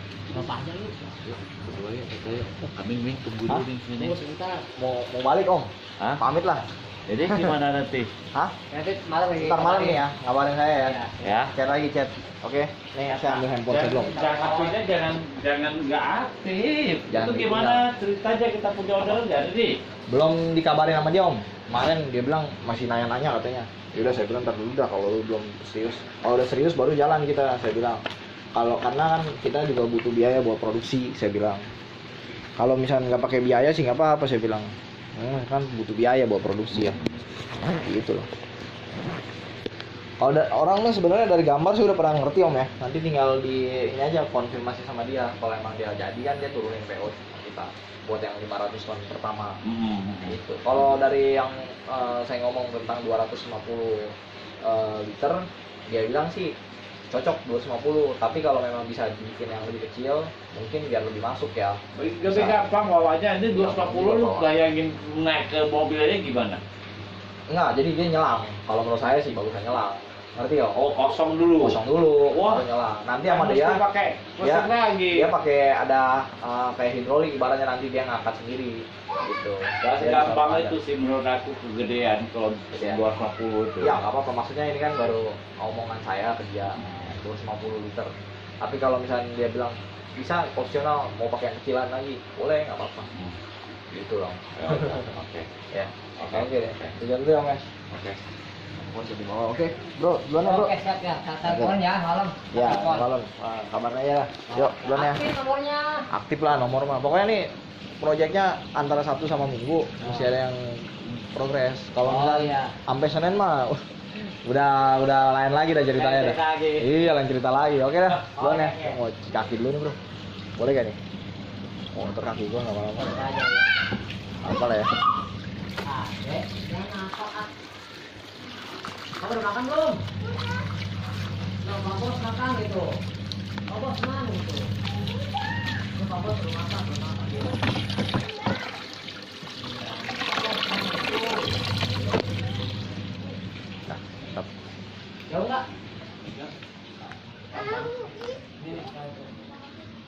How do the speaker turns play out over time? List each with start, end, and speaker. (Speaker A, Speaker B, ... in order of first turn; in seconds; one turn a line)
Speaker A: 0.3-1.2
Speaker B: 1.2-4.2
Speaker A: 4.0-4.7
Speaker C: 4.8-6.7
Speaker B: 7.1-8.1
Speaker C: 7.3-7.5
Speaker A: 8.7-10.0
Speaker C: 9.4-10.9
Speaker A: 10.8-11.4
Speaker B: 11.2-11.5
Speaker C: 11.5-14.1
Speaker B: 13.1-19.8
Speaker A: 13.9-14.8
Speaker C: 17.1-17.9
Speaker C: 20.1-28.0
Speaker C: 28.5-31.6
Speaker C: 32.6-37.0
Speaker C: 37.6-38.3
Speaker C: 40.2-49.6
Speaker B: 49.6-50.4
Speaker C: 50.2-54.1
Speaker C: 54.6-56.5
Speaker C: 57.1-62.6
Speaker B: 62.0-66.6
Speaker C: 63.5-64.6
Speaker C: 67.5-70.8
Speaker B: 70.8-71.8
Speaker C: 71.6-73.8
Speaker B: 72.3-72.6
Speaker B: 73.2-75.3
Speaker C: 74.4-80.8
Speaker B: 79.8-84.0
Speaker C: 82.8-83.0
Speaker C: 83.8-93.1
Speaker B: 86.8-87.2
Speaker C: 93.9-95.1
Speaker B: 94.5-95.5
Speaker C: 95.7-98.2
Speaker B: 96.2-97.0
Speaker C: 98.8-100.7
Speaker A: 100.4-103.1
Speaker C: 101.5-101.8
Speaker C: 102.5-105.2
Speaker A: 104.5-106.0
Speaker C: 106.1-120.0
Speaker A: 112.0-112.8
Speaker A: 115.9-116.9
Speaker A: 118.3-119.0
Speaker C: 120.6-121.0
Speaker C: 121.9-123.1
Speaker A: 123.0-123.7
Speaker C: 124.4-124.9
Speaker A: 125.9-127.5
Speaker A: 129.2-130.0
Speaker A: 131.6-132.9
Speaker A: 133.7-134.7
Speaker A: 135.9-137.6
Speaker A: 139.6-141.6
Speaker C: 143.9-144.5
Speaker A: 145.3-145.6
Speaker A: 148.6-149.3